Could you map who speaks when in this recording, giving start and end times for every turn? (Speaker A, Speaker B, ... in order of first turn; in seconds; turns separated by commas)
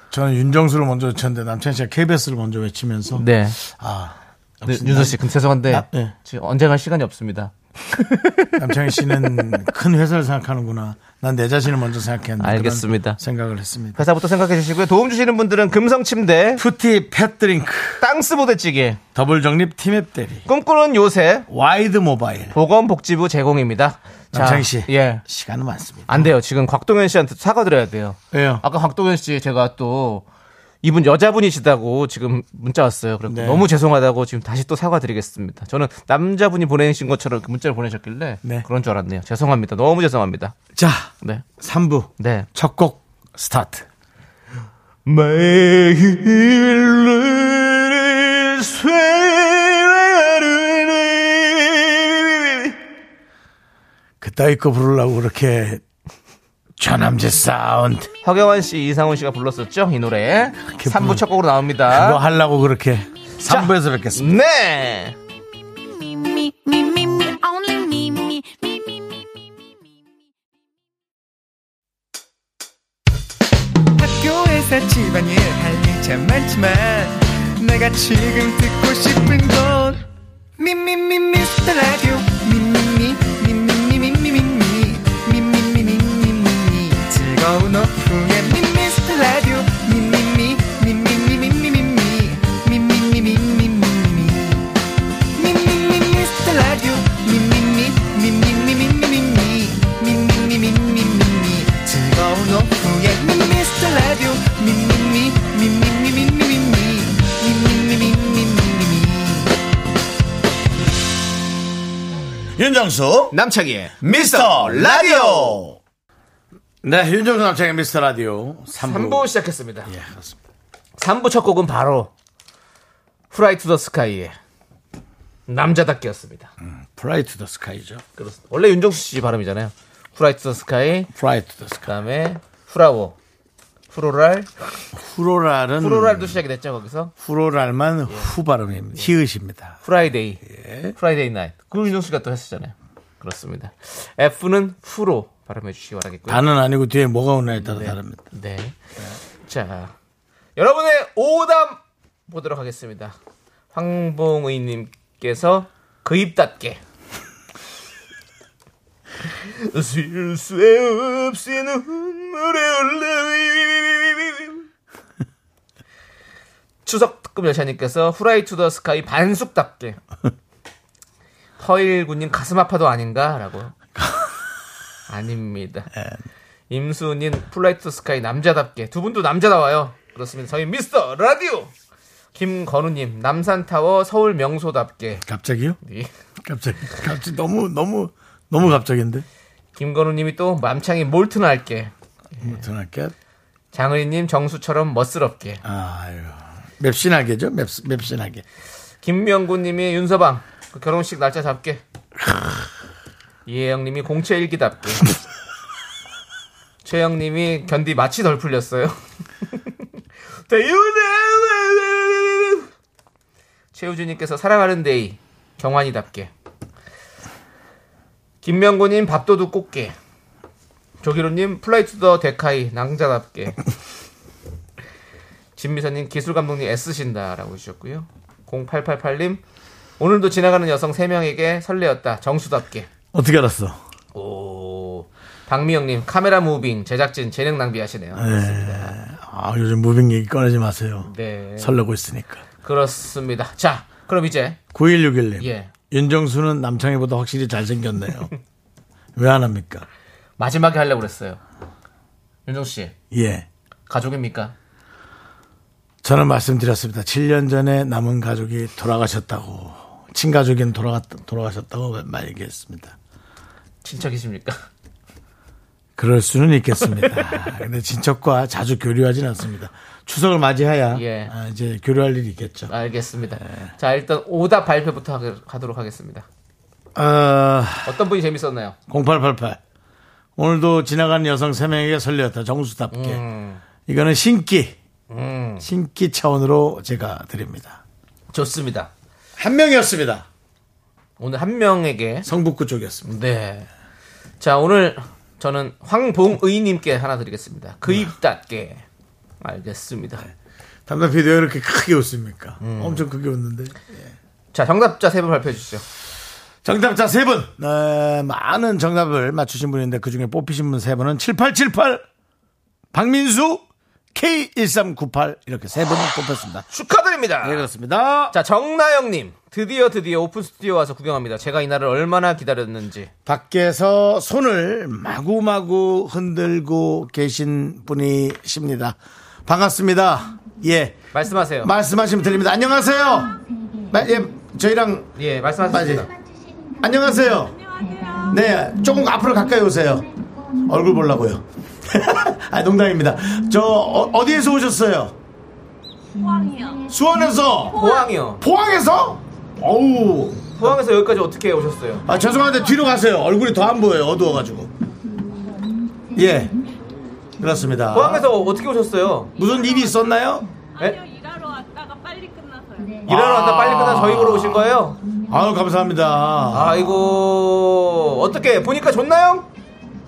Speaker A: 0.1-6.1, Speaker B: 3.1-3.6, Speaker B: 4.7-8.6, Speaker A: 8.6-14.0, Speaker B: 12.4-13.2, Speaker B: 14.0-16.6, Speaker A: 16.6-18.0, Speaker B: 18.0-19.0, Speaker A: 19.1-20.5, Speaker B: 20.5-21.5, Speaker A: 21.5-22.6, Speaker B: 22.5-25.2, Speaker A: 24.3-26.3, Speaker B: 26.1-30.2, Speaker A: 28.3-28.6, Speaker B: 30.8-40.5, Speaker A: 33.3-33.7, Speaker A: 40.8-43.9, Speaker B: 42.2-42.5, Speaker B: 45.1-52.8, Speaker A: 54.2-55.8, Speaker A: 56.8-58.1, Speaker B: 58.2-62.2, Speaker A: 60.6-61.2, Speaker A: 61.9-64.3, Speaker B: 63.4-65.2, Speaker C: 65.8-69.2, Speaker D: 74.0-80.0, Speaker D: 80.6-94.7, Speaker D: 95.3-109.5, Speaker A: 112.5-113.4, Speaker B: 113.3-115.6, Speaker A: 114.0-115.8, Speaker A: 116.8-119.3, Speaker B: 118.8-119.9, Speaker A: 119.8-120.4, Speaker B: 121.0-122.1, Speaker B: 123.3-124.3, Speaker B: 125.5-126.5, Speaker A: 126.6-128.0, Speaker B: 128.2-131.1, Speaker A: 131.1-131.9, Speaker B: 131.8-133.2, Speaker B: 133.9-134.5, Speaker A: 134.9-136.4, Speaker B: 135.8-137.1, Speaker A: 137.2-139.8, Speaker B: 139.8-146.4, Speaker A: 140.5-140.9, Speaker A: 146.3-148.2, Speaker B: 147.6-148.8, Speaker B: 149.5-149.9, Speaker B: 150.6-153.2, Speaker B: 153.7-156.8, Speaker B: 159.4-164.6, Speaker B: 166.9-170.0, Speaker B: 171.6-173.7, Speaker A: 174.0-174.3, Speaker B: 175.1-175.9, Speaker B: 176.7-181.7, Speaker B: 182.3-185.3, Speaker A: 185.2-185.8, Speaker B: 185.8-186.1, Speaker A: 186.4-189.3, Speaker B: 189.8-192.6, Speaker A: 192.4-193.1, Speaker B: 193.7-195.6, Speaker A: 195.6-198.4, Speaker B: 199.0-201.8, Speaker B: 203.5-205.1, Speaker B: 206.8-209.0, Speaker B: 210.5-212.7, Speaker B: 213.7-216.3, Speaker B: 218.4-219.9, Speaker B: 221.0-223.6, Speaker B: 225.6-229.4, Speaker B: 230.0-232.9, Speaker A: 233.1-233.8, Speaker B: 234.1-238.9, Speaker A: 238.2-242.4, Speaker B: 241.1-241.8, Speaker B: 242.6-244.6, Speaker A: 244.7-248.3, Speaker B: 245.4-245.7, Speaker A: 249.2-249.9, Speaker B: 250.4-251.4, Speaker B: 252.5-252.9, Speaker A: 253.1-253.5, Speaker B: 253.9-254.5, Speaker A: 256.0-262.9, Speaker B: 263.8-264.6, Speaker A: 266.0-272.7, Speaker B: 270.9-271.3, Speaker B: 272.7-276.3, Speaker A: 276.9-278.0, Speaker B: 277.9-278.8, Speaker A: 278.9-279.6, Speaker A: 280.4-283.2, Speaker B: 282.9-283.6, Speaker A: 283.9-284.8, Speaker B: 285.1-285.6, Speaker A: 285.6-287.8, Speaker B: 288.3-288.9, Speaker A: 289.4-290.3, Speaker B: 291.2-292.3, Speaker A: 292.2-293.1, Speaker B: 293.1-293.7, Speaker B: 294.4-298.8, Speaker B: 299.4-300.3, Speaker A: 300.9-304.1, Speaker B: 302.6-303.1, Speaker B: 304.5-305.8, Speaker A: 306.6-312.0, Speaker A: 312.9-316.7, Speaker B: 316.7-317.7, Speaker A: 317.4-318.4, Speaker B: 318.3-323.1, Speaker A: 323.3-331.0, Speaker B: 331.1-331.7, Speaker A: 331.6-333.4, Speaker A: 333.9-335.1, Speaker B: 335.2-336.1, Speaker A: 335.7-336.1, Speaker A: 336.8-337.7, Speaker C: 337.8-338.3, Speaker A: 338.2-345.1, Speaker C: 346.3-346.8, Speaker A: 346.8-347.9, Speaker B: 347.7-348.4, Speaker A: 348.4-350.7, Speaker B: 350.6-352.1, Speaker A: 352.1-354.7, Speaker A: 356.1-356.6, Speaker A: 357.4-358.3, Speaker B: 357.9-359.3, Speaker A: 359.4-360.5, Speaker A: 363.1-364.7, Speaker B: 363.1-365.0, Speaker A: 365.2-367.0, Speaker B: 366.5-369.5